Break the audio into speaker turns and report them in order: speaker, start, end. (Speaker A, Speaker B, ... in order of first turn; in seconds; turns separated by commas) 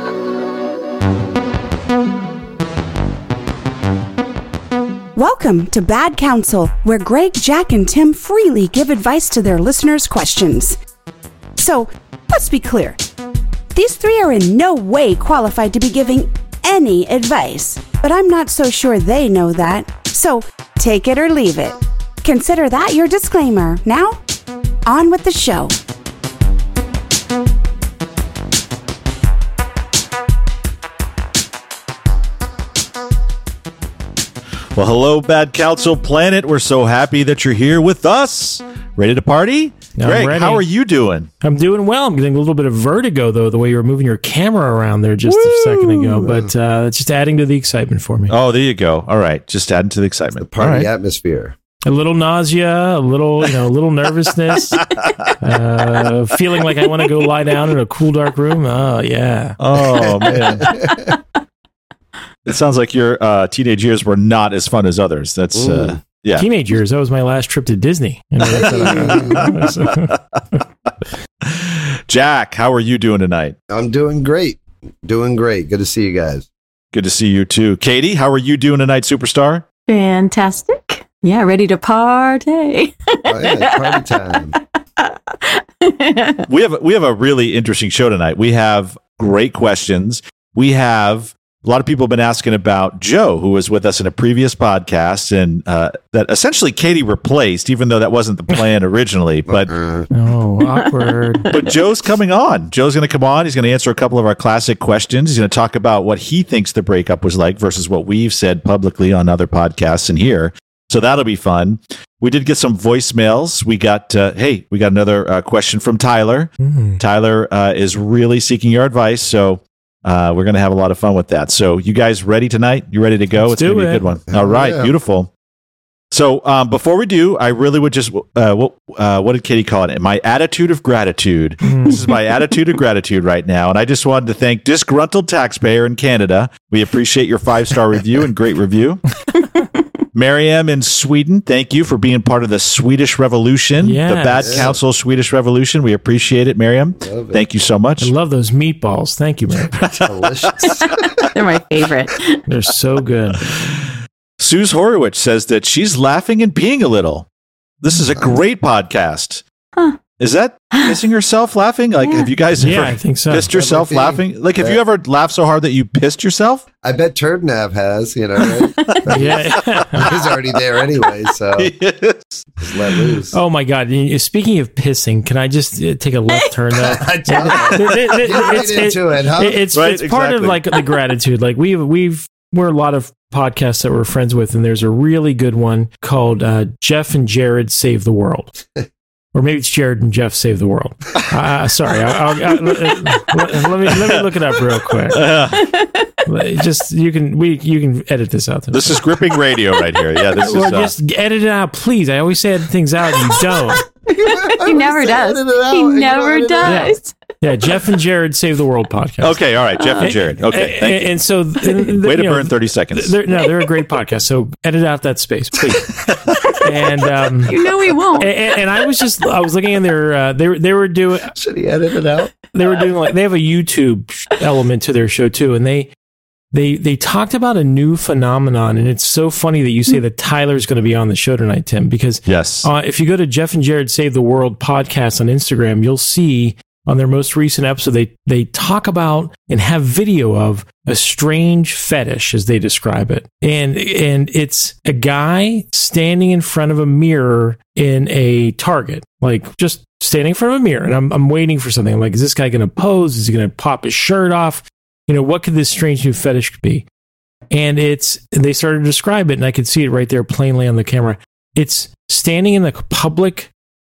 Speaker A: 5.1-10.8, Speaker A: 11.6-13.0, Speaker A: 13.7-24.2, Speaker A: 24.8-25.7, Speaker B: 34.7-41.3, Speaker C: 39.9-40.6, Speaker C: 41.4-48.3, Speaker B: 45.2-46.3, Speaker B: 48.3-50.9, Speaker D: 50.4-51.5, Speaker C: 51.8-54.8, Speaker B: 54.8-55.3, Speaker C: 55.4-59.6, Speaker B: 59.6-60.8, Speaker D: 60.0-61.1, Speaker B: 62.5-66.5, Speaker D: 65.5-66.0, Speaker C: 66.4-70.1, Speaker B: 68.5-70.4, Speaker D: 68.5-69.5, Speaker B: 71.4-73.5, Speaker D: 73.7-76.5, Speaker B: 76.9-79.6, Speaker E: 79.9-86.5, Speaker D: 83.2-84.5, Speaker B: 86.5-99.7, Speaker D: 99.5-100.1, Speaker C: 100.1-101.5, Speaker E: 100.8-101.7, Speaker B: 101.5-125.3, Speaker C: 116.6-117.0, Speaker C: 123.3-124.0, Speaker D: 124.3-124.9, Speaker B: 126.1-139.0, Speaker C: 131.6-132.1, Speaker B: 140.1-148.1, Speaker C: 143.8-144.7, Speaker D: 144.4-144.8, Speaker D: 147.0-147.4, Speaker C: 148.0-149.8, Speaker B: 149.6-150.9, Speaker D: 150.0-151.0, Speaker E: 151.3-152.4, Speaker C: 152.5-153.4, Speaker B: 153.4-157.3, Speaker B: 157.8-159.4, Speaker B: 160.2-166.6, Speaker E: 162.0-162.3, Speaker C: 162.6-163.5, Speaker D: 163.5-164.8, Speaker D: 166.8-171.7, Speaker B: 168.9-170.1, Speaker C: 169.1-170.1, Speaker B: 171.6-172.5, Speaker D: 172.6-173.4, Speaker C: 173.3-188.6, Speaker D: 176.7-179.6, Speaker B: 179.7-180.6, Speaker C: 189.3-195.3, Speaker B: 195.1-195.7, Speaker E: 195.5-196.2, Speaker C: 196.3-199.0, Speaker B: 198.7-200.9, Speaker C: 200.4-203.8, Speaker D: 204.1-206.9, Speaker E: 204.2-207.2, Speaker C: 206.6-209.4, Speaker B: 209.2-211.2, Speaker E: 209.8-210.1, Speaker C: 210.0-215.9, Speaker B: 211.8-213.2, Speaker B: 216.1-216.4, Speaker C: 216.6-217.7, Speaker E: 217.4-218.6, Speaker C: 218.2-221.3, Speaker D: 221.3-222.3, Speaker C: 222.5-225.9, Speaker C: 226.5-256.8, Speaker B: 232.3-232.7, Speaker C: 257.5-263.5